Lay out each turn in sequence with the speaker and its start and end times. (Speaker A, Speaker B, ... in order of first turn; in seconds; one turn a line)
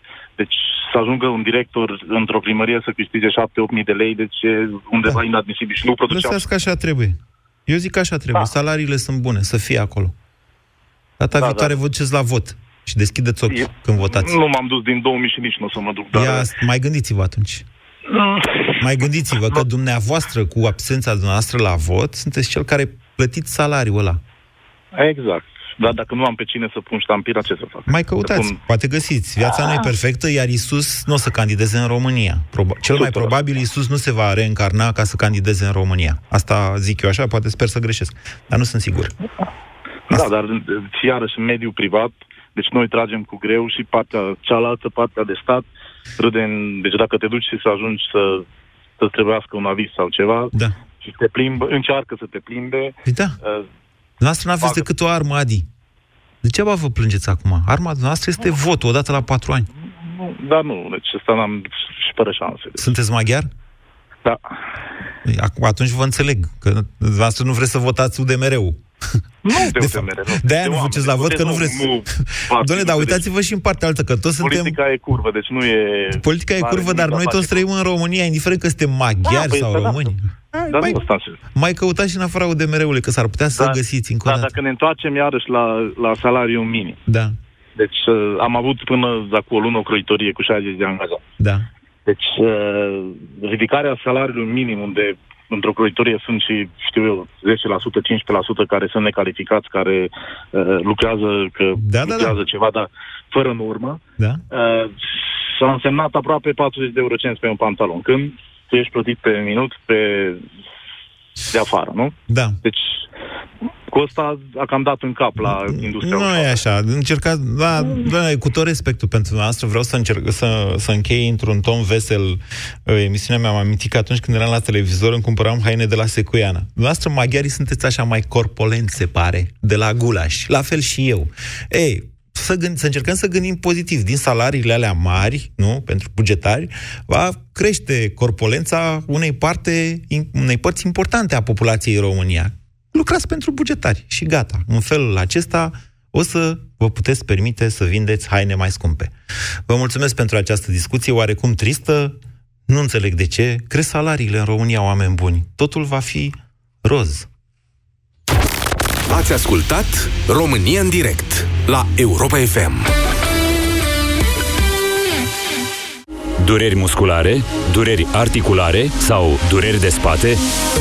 Speaker A: 0.4-6.4
Speaker B: 6.1-10.1
Speaker B: 11.2-14.4
Speaker A: 11.3-11.8
Speaker A: 13.5-16.5
Speaker B: 16.1-17.6
Speaker A: 18.1-18.6
Speaker B: 18.8-24.2
Speaker A: 24.9-28.6
Speaker B: 27.9-39.1
Speaker A: 32.8-33.4
Speaker A: 40.1-45.7
Speaker A: 46.2-48.4
Speaker A: 49.0-53.6
Speaker B: 53.0-53.4
Speaker B: 54.2-55.6
Speaker A: 54.6-54.9
Speaker B: 56.4-59.7
Speaker A: 60.0-62.9
Speaker B: 62.8-63.5
Speaker B: 65.2-68.8
Speaker A: 69.4-73.2
Speaker B: 69.5-74.8
Speaker A: 74.4-77.7
Speaker B: 76.1-81.0
Speaker A: 79.2-80.1
Speaker A: 80.7-81.4
Speaker B: 81.5-84.5
Speaker A: 83.5-87.0
Speaker B: 87.1-87.3
Speaker A: 87.8-91.2
Speaker B: 91.4-91.7
Speaker A: 92.0-110.4
Speaker B: 101.8-102.4
Speaker A: 111.5-113.0
Speaker B: 112.3-112.6
Speaker A: 113.9-116.6
Speaker B: 115.4-149.1
Speaker B: 149.7-152.2
Speaker B: 152.7-157.3
Speaker C: 159.1-162.8
Speaker D: 166.4-170.4